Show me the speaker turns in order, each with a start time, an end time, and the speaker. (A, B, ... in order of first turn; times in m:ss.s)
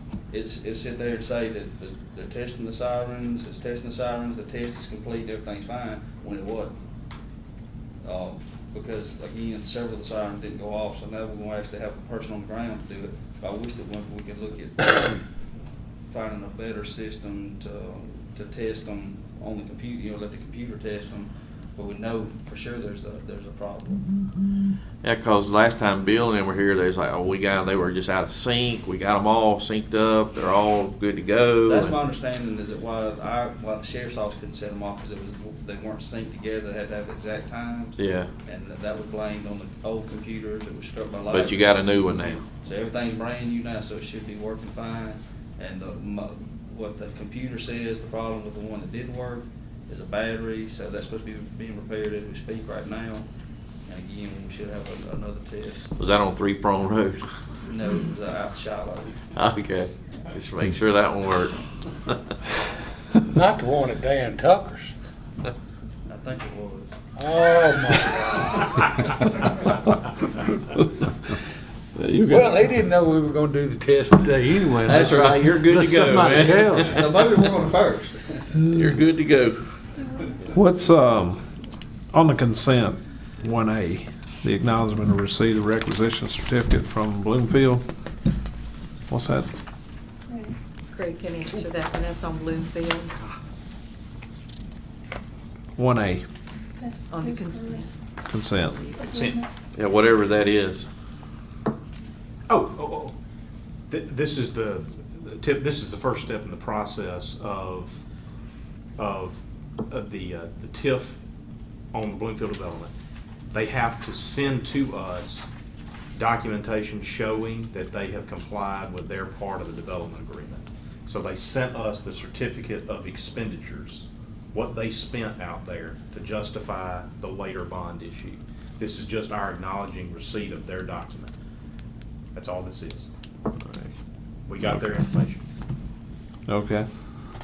0:00.3-0:06.7 A
0:08.0-0:15.2 A
0:16.1-0:24.0 A
0:25.0-0:31.9 B
0:31.6-0:53.2 A
0:38.0-0:38.3 B
0:41.3-0:42.4 B
0:53.9-0:55.9 A
0:56.0-0:57.2 B
0:57.6-0:59.2 A
0:59.3-1:01.6 B
1:03.3-1:04.9 C
1:06.1-1:06.9 A
1:07.2-1:09.1 C
1:12.0-1:12.5 D
1:12.2-1:17.0 C
1:14.8-1:16.9 B
1:16.6-1:18.5 A
1:18.7-1:19.6 B
1:20.5-1:21.4 D
1:22.1-1:27.8 D
1:29.1-1:29.5 D
1:30.9-1:33.1 E
1:35.8-1:36.2 D
1:37.0-1:37.9 E
1:38.3-1:38.9 D
1:38.8-1:39.1 E
1:39.7-1:40.9 B
1:42.5-1:43.1 F
1:43.9-1:48.0 F
1:49.0-1:49.4 F
1:49.9-1:51.1 F
1:50.8-1:51.1 C
1:51.9-1:52.9 F
1:53.5-1:55.4 F
1:56.2-2:00.5 F
1:59.4-2:00.6 C
2:01.0-2:03.8 F
2:03.5-2:08.1 C
2:04.6-2:11.3 F
2:08.8-2:09.1 C
2:12.3-2:13.0 F
2:13.6-2:13.9 B
2:14.5-2:14.8 C
2:14.6-2:15.4 F
2:16.5-2:16.9 D